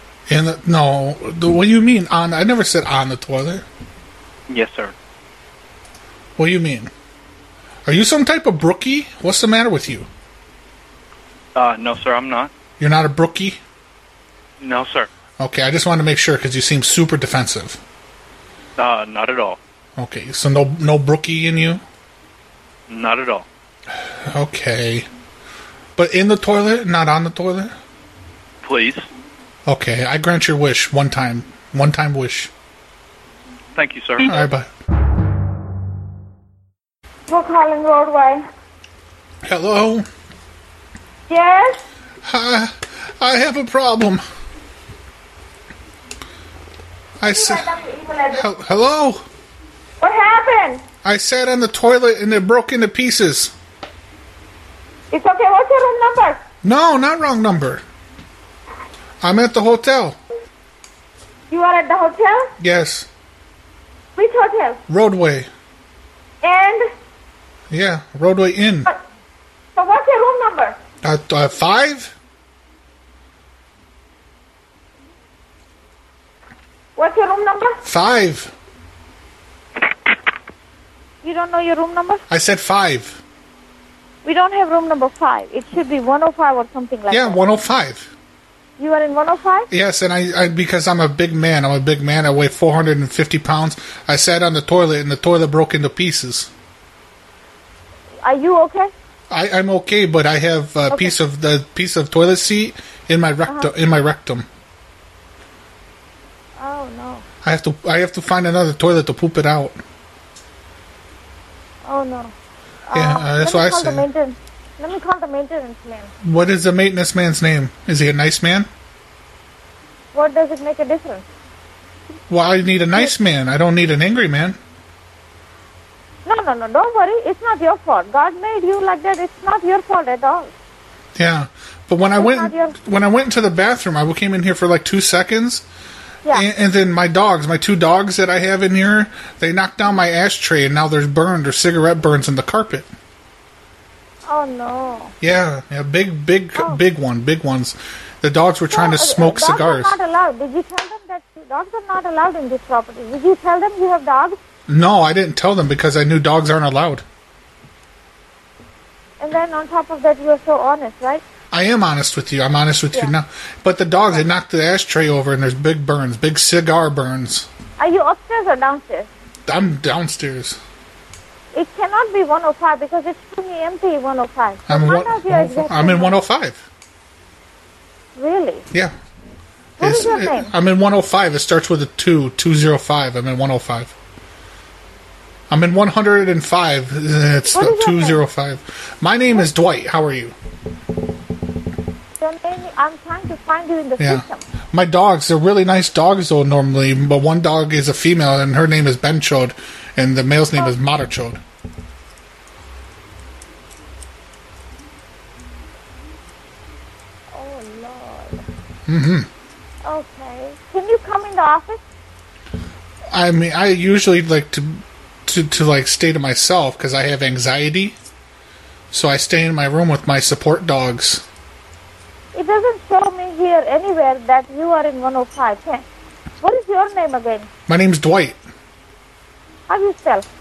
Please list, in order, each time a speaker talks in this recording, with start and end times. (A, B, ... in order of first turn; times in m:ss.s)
0:00.3-0:03.6 A
0:04.5-0:04.9 B
0:06.4-0:06.9 A
0:07.9-0:10.1 A
0:11.6-0:12.5 B
0:12.8-0:13.6 A
0:14.6-0:15.1 B
0:15.4-0:17.8 A
0:18.8-0:19.6 B
0:20.0-0:21.8 A
0:22.9-0:23.5 B
0:24.2-0:25.1 A
0:26.0-0:27.8 A
0:28.6-0:29.1 B
0:29.6-0:32.5 A
0:33.8-0:34.3 B
0:34.2-0:34.7 A
0:37.3-0:38.4 C
0:39.4-0:40.1 A
0:41.3-0:41.8 C
0:42.2-0:44.2 A
0:47.2-0:47.7 A
0:47.3-0:48.4 C
0:48.3-0:49.2 A
0:50.0-0:50.8 C
0:51.0-0:53.5 A
0:55.1-0:56.4 C
0:56.6-0:57.8 A
0:59.2-1:00.2 A
1:01.5-1:02.5 C
1:02.6-1:03.1 A
1:04.2-1:04.8 C
1:04.9-1:05.5 A
1:06.4-1:06.9 C
1:07.7-1:08.9 A
1:09.8-1:10.8 C
1:11.0-1:12.1 A
1:17.0-1:17.8 C
1:17.8-1:18.5 A
1:21.2-1:22.2 C
1:22.3-1:23.2 A
1:24.2-1:27.4 C
1:27.1-1:28.1 A
1:28.8-1:29.7 C
1:29.7-1:36.5 A
1:38.2-1:38.9 C
1:39.3-1:44.5 A
1:40.9-1:41.2 C
1:43.5-1:43.7 C
1:46.6-1:47.2 C
1:47.4-1:49.8 A
1:51.8-1:52.3 C
1:52.9-1:56.1 C
1:52.9-1:54.1 A
1:56.2-1:58.7 A
2:00.1-2:01.2 C
2:02.3-2:04.6 A
2:06.3-2:10.5 C
2:11.2-2:15.6 A
2:12.0-2:12.8 C
2:16.3-2:22.9 A
2:24.3-2:25.1 C
2:25.2-2:30.0 A
2:28.7-2:34.4 C
2:34.7-2:37.0 A
2:39.2-2:41.2 C
2:41.5-2:47.5 A
2:47.8-2:49.1 C
2:49.5-2:50.6 A
2:51.5-2:56.2 C
2:54.7-2:56.6 A
2:58.2-2:58.6 C
2:59.8-3:00.5 C
2:59.8-3:03.9 A
3:05.5-3:10.4 A
3:07.5-3:08.2 C
3:12.2-3:14.4 C
3:14.0-3:21.4 A
3:27.3-3:28.4 C
3:28.9-3:29.3 A
3:29.8-3:31.8 C
3:33.1-3:38.0 A
3:38.9-3:41.2 A
3:42.3-3:45.8 C
3:46.4-3:47.5 C
3:47.7-3:48.4 A
3:49.7-3:50.3 C